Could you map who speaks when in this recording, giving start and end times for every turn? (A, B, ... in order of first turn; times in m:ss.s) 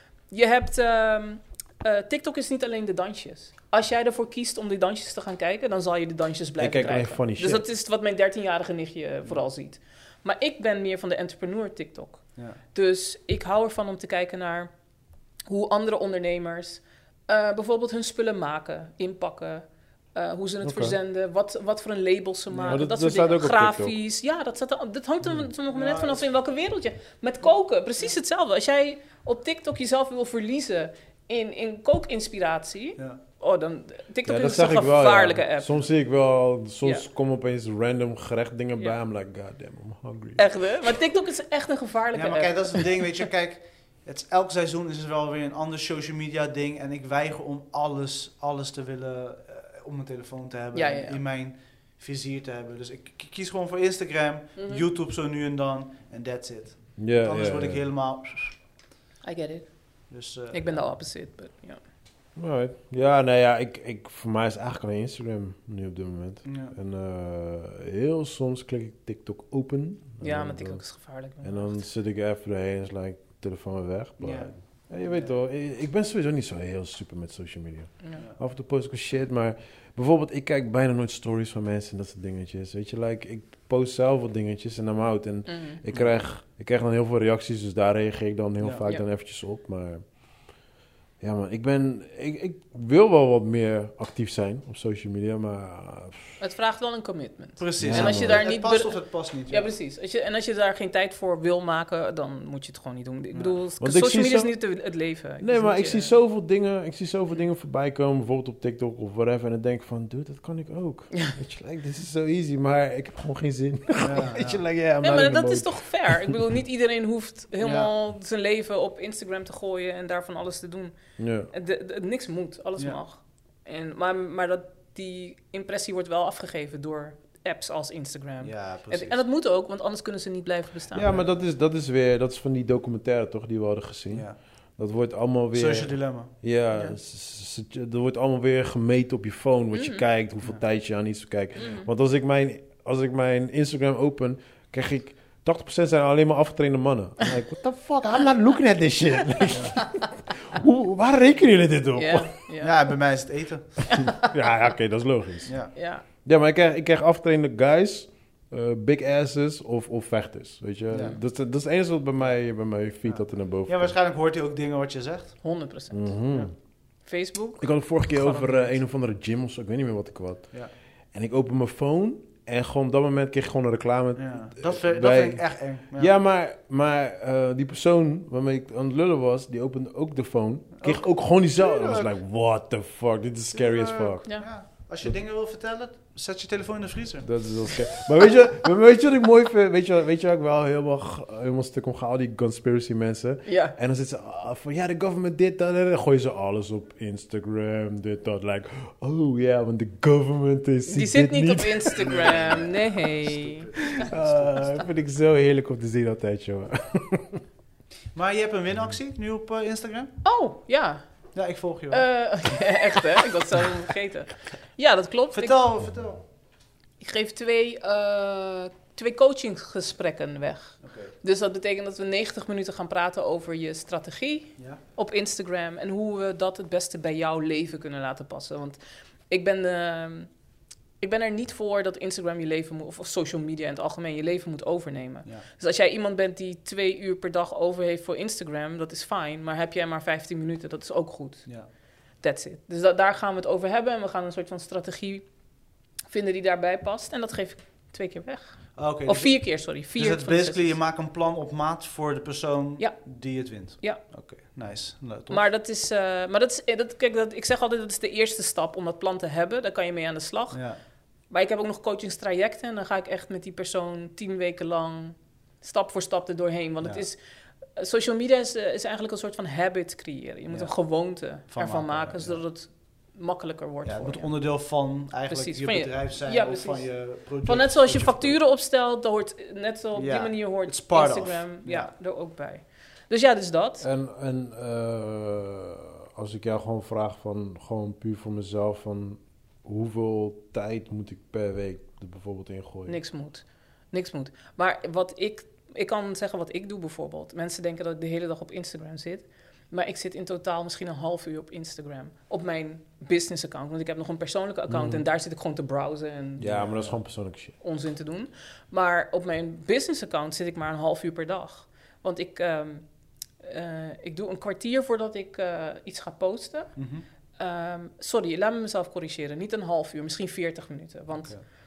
0:00.3-0:14.7 A
0:06.6-0:07.6 B
0:15.5-0:35.8 A
0:20.6-0:21.0 B
0:22.5-0:22.8 C
0:22.7-0:24.0 B
0:25.7-0:26.3 C
0:34.2-0:40.5 B
0:40.4-0:43.0 A
0:42.1-0:58.6 C
0:50.7-0:51.2 A
0:54.6-0:54.8 A
0:57.0-0:57.8 B
0:59.2-0:59.7 A
1:00.1-1:00.8 C
1:00.5-1:01.8 A
1:02.4-1:30.2 B
1:06.4-1:06.8 C
1:10.2-1:11.8 A
1:14.2-1:15.3 C
1:25.5-1:25.8 A
1:31.2-1:36.4 B
1:36.4-1:46.1 A
1:37.6-1:39.7 C
1:37.8-1:38.4 B
1:43.3-1:43.6 C
1:43.8-1:44.6 B
1:45.4-1:56.4 B
1:54.0-1:54.6 C
1:55.0-2:01.0 A
1:57.6-1:57.9 C
2:01.2-2:01.5 B
2:01.5-2:11.2 A
2:08.4-2:09.2 C
2:10.9-2:32.4 B
2:11.0-2:11.3 C
2:14.1-2:14.4 C
2:15.5-2:16.3 C
2:19.7-2:20.0 A
2:21.6-2:21.9 A
2:29.5-2:29.8 C
2:32.0-2:32.8 A
2:32.6-2:34.0 C
2:33.9-2:34.3 A
2:34.0-2:35.6 B
2:35.5-2:35.7 C
2:35.7-2:36.0 A
2:36.2-2:43.9 B
2:40.9-2:41.2 C
2:43.0-2:45.6 C
2:45.4-2:46.2 A
2:45.9-2:46.5 B
2:47.0-2:48.8 A
2:47.6-3:04.4 B
2:54.2-2:56.1 C
3:00.8-3:02.1 C
3:03.5-3:07.8 C
3:07.2-3:22.3 B
3:13.4-3:13.8 A
3:20.9-3:24.0 A
3:22.0-3:24.8 C
3:23.9-3:27.4 B
3:28.2-3:30.2 C
3:30.2-3:31.0 A
3:31.4-3:32.7 C
3:31.9-3:35.6 A
3:35.3-3:36.2 C
3:37.0-3:50.3 A
3:40.8-3:41.1 C
3:51.0-4:01.5 A
4:02.2-4:05.3 A
4:06.1-4:10.8 A
4:08.8-4:15.5 C
4:15.3-4:20.6 A
4:20.5-4:20.8 C
4:21.3-4:27.2 A
4:27.8-4:34.3 A
4:30.5-4:32.4 C
4:33.8-4:38.4 C
4:35.3-4:43.9 A
4:40.0-4:41.9 C
4:43.8-4:53.0 B
4:52.9-5:06.6 A
5:04.7-5:05.0 B
5:06.4-5:07.6 B
5:06.4-5:07.0 C
5:07.6-5:12.8 A
5:13.4-5:16.8 A
5:16.8-5:17.0 C
5:17.4-5:21.4 A
5:21.2-5:21.4 C